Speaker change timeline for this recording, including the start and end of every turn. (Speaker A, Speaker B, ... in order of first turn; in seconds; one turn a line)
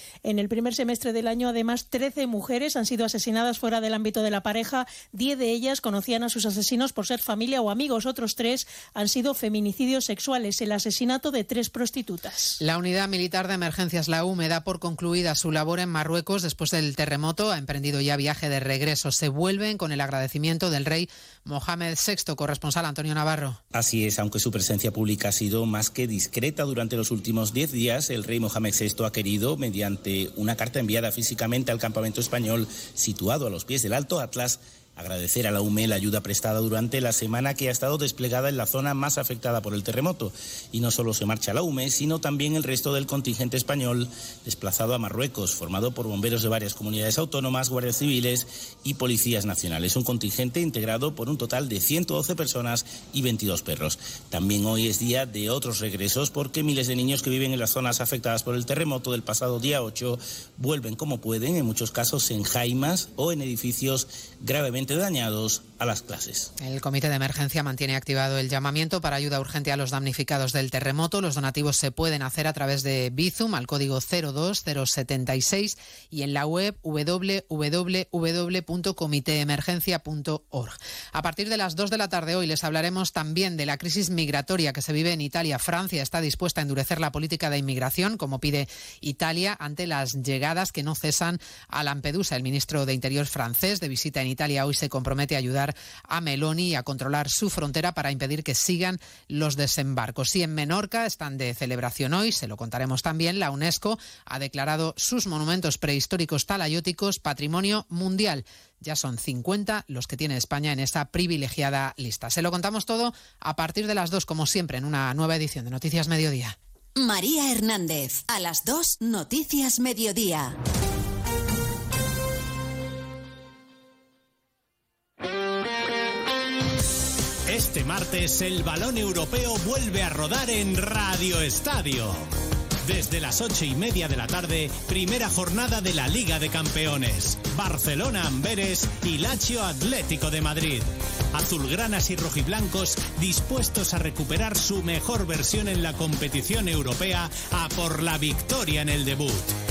Speaker A: 0.2-12.6
Speaker B: 12.6-23.6
Speaker C: 23.7-66.5
Speaker B: 66.6-116.5
Speaker D: 116.9-120.5
Speaker E: 127.5-132.2
Speaker E: 132.8-149.5